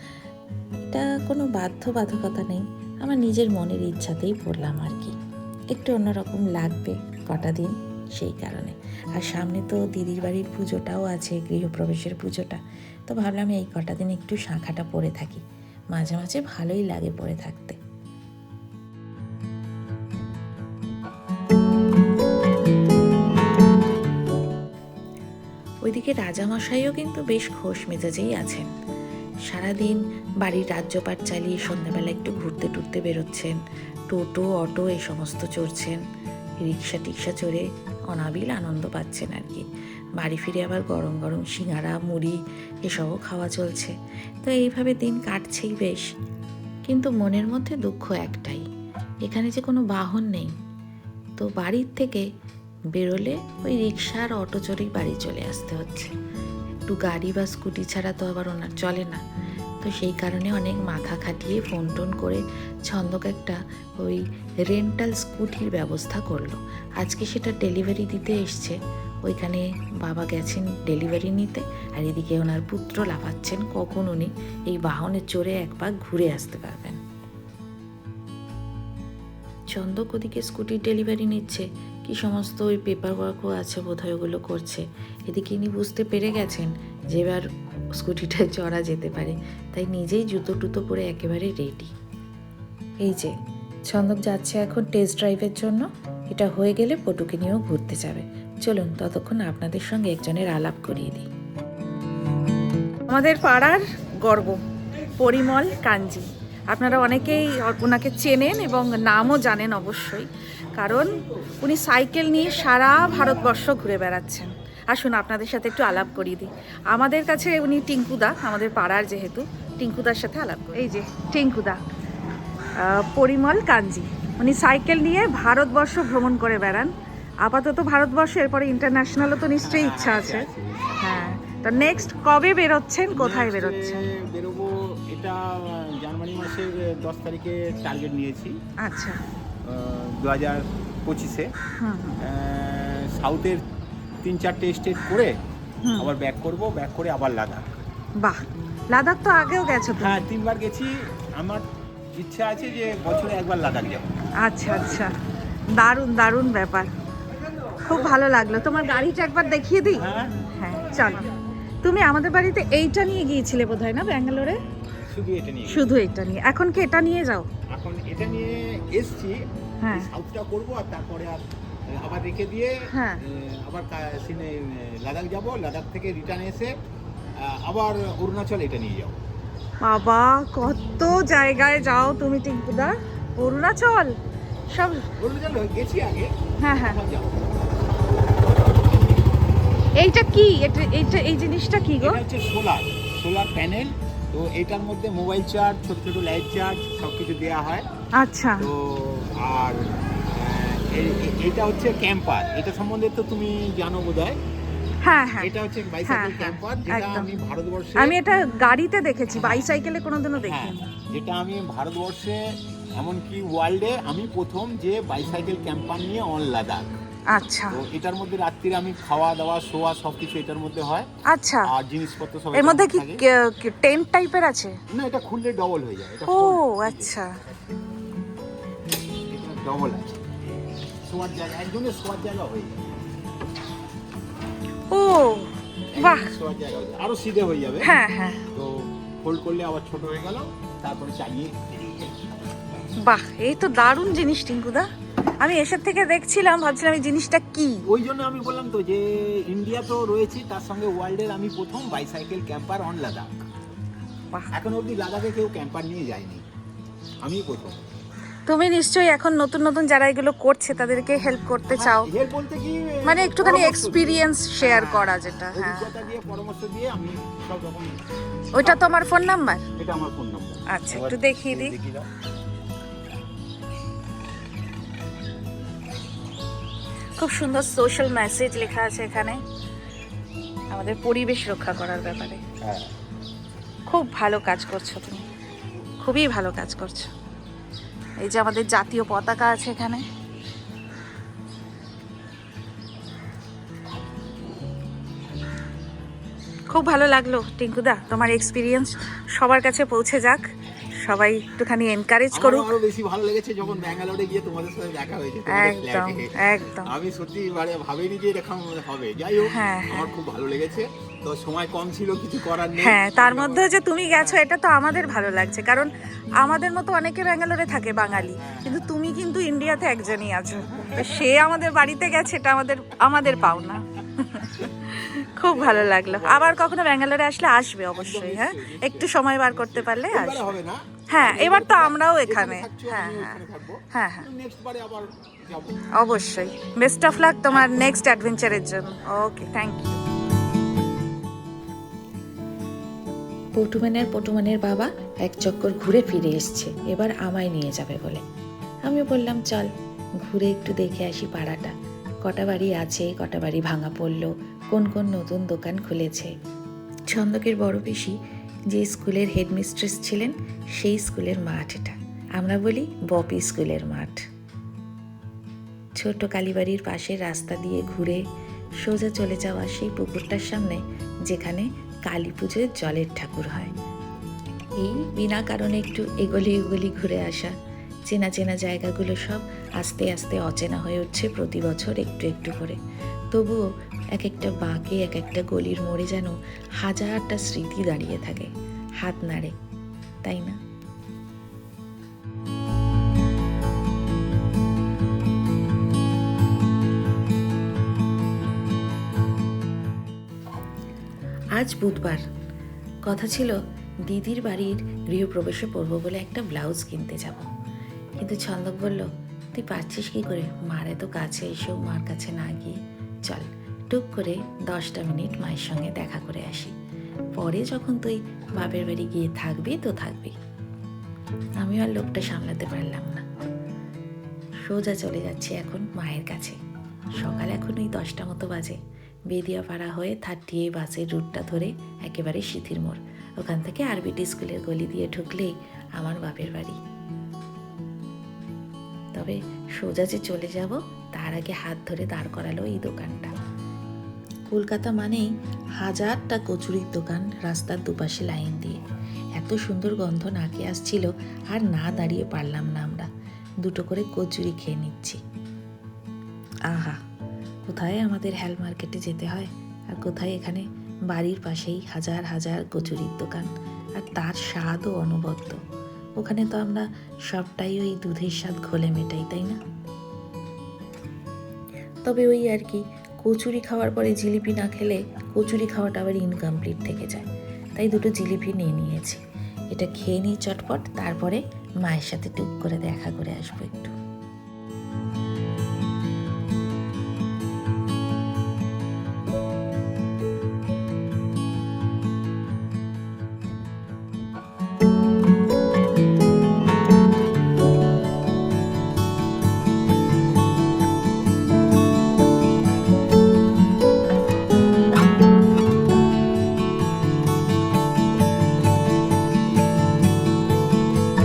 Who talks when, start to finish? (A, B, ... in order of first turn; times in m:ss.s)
0:00.9-0:05.2 A
0:05.7-0:15.4 A
0:15.9-0:17.8 A
0:25.9-0:28.7 A
0:29.5-0:33.6 A
0:34.1-0:36.0 A
0:36.6-0:39.7 A
0:40.2-0:46.1 A
0:46.9-0:48.6 A
0:49.3-0:50.5 A
0:51.4-0:52.3 A
0:52.9-0:56.1 A
0:56.9-0:59.2 A
0:59.8-1:17.0 A
1:19.7-1:27.4 A
1:28.0-1:31.9 A
1:33.0-1:33.3 A
1:33.9-1:41.3 A
1:43.1-1:44.6 B
1:45.2-2:01.8 B
2:02.8-2:06.9 B
2:07.4-2:10.5 B
2:09.6-2:11.4 C
2:11.0-2:14.0 B
2:13.1-2:18.6 C
2:18.8-2:19.2 B
2:19.6-2:21.5 C
2:21.8-2:22.2 B
2:22.2-2:23.6 C
2:24.2-2:25.3 C
2:25.8-2:26.1 B
2:26.0-2:27.7 C
2:28.2-2:30.3 B
2:30.0-2:31.6 C
2:32.2-2:34.1 C
2:34.4-2:35.1 B
2:35.8-2:36.9 B
2:37.8-2:41.3 B
2:39.9-2:40.4 C
2:41.8-2:44.6 B
2:44.7-2:45.9 C
2:45.7-2:47.5 B
2:47.7-2:56.7 C
2:49.8-2:50.1 B
2:52.9-2:53.2 B
2:57.4-2:59.2 C
2:59.8-3:04.1 B
3:04.7-3:05.1 B
3:05.2-3:07.7 C
3:06.6-3:07.0 B
3:10.0-3:12.2 B
3:12.0-3:17.9 C
3:18.2-3:18.7 B
3:18.6-3:24.4 C
3:25.0-3:25.5 B
3:25.4-3:28.2 C
3:26.1-3:27.3 B
3:28.0-3:30.9 B
3:29.3-3:29.7 C
3:30.4-3:32.4 C
3:33.0-3:36.9 C
3:37.3-3:37.8 B
3:37.7-3:41.1 C
3:41.3-3:41.7 B
3:41.7-3:43.2 C
3:42.6-3:44.8 B
3:44.9-3:47.2 C
3:46.3-3:47.3 B
3:49.3-3:50.2 C
3:51.0-3:52.9 C
3:54.9-3:56.3 B
3:55.9-3:58.0 C
3:57.8-3:58.5 B
3:58.5-4:02.2 C
4:03.0-4:04.9 B
4:05.4-4:07.8 B
4:07.9-4:13.4 C
4:14.5-4:16.4 C
4:17.2-4:17.8 C
4:18.5-4:22.1 B
4:21.7-4:28.8 C
4:23.1-4:26.1 B
4:28.6-4:29.6 B
4:29.8-4:32.1 C
4:30.7-4:31.7 B
4:37.2-4:39.4 B
4:40.7-4:42.4 B
4:42.6-4:42.9 C
4:43.9-4:45.2 B
4:46.0-4:47.1 B
4:48.2-4:50.0 B
4:56.7-5:00.5 B
5:01.0-5:02.8 B
5:02.3-5:14.4 C
5:05.5-5:06.9 B
5:09.4-5:10.1 B
5:12.8-5:30.5 B
5:18.2-5:18.8 C
5:20.7-5:21.2 C
5:25.4-5:26.8 C
5:27.9-5:35.8 C
5:31.1-5:33.4 B
5:33.9-5:34.3 B
5:36.0-5:40.0 B
5:37.5-5:38.0 C
5:43.6-5:48.2 A
5:48.9-5:49.7 A
5:50.2-5:51.7 A
5:52.2-5:56.3 A
5:57.1-5:58.2 A
5:58.7-6:04.2 A
6:06.0-6:08.2 A
6:08.8-6:13.7 A
6:14.8-6:17.5 A
6:18.1-6:22.8 A
6:23.3-6:23.6 A
6:24.2-6:28.5 A
6:29.0-6:29.5 A
6:30.2-6:30.6 A
6:41.6-6:42.2 A
6:43.1-6:47.5 A
6:48.2-6:56.7 A
6:57.4-7:00.4 A
7:01.6-7:03.3 A
7:04.7-7:06.6 A
7:07.2-7:16.8 A
7:19.2-7:23.3 A
7:24.5-7:28.8 A
7:29.4-7:33.1 A
7:33.6-7:35.2 A
7:36.7-7:37.0 A
7:37.7-7:45.6 A
7:46.2-7:49.6 A
7:52.0-7:59.2 A
7:59.7-8:04.0 A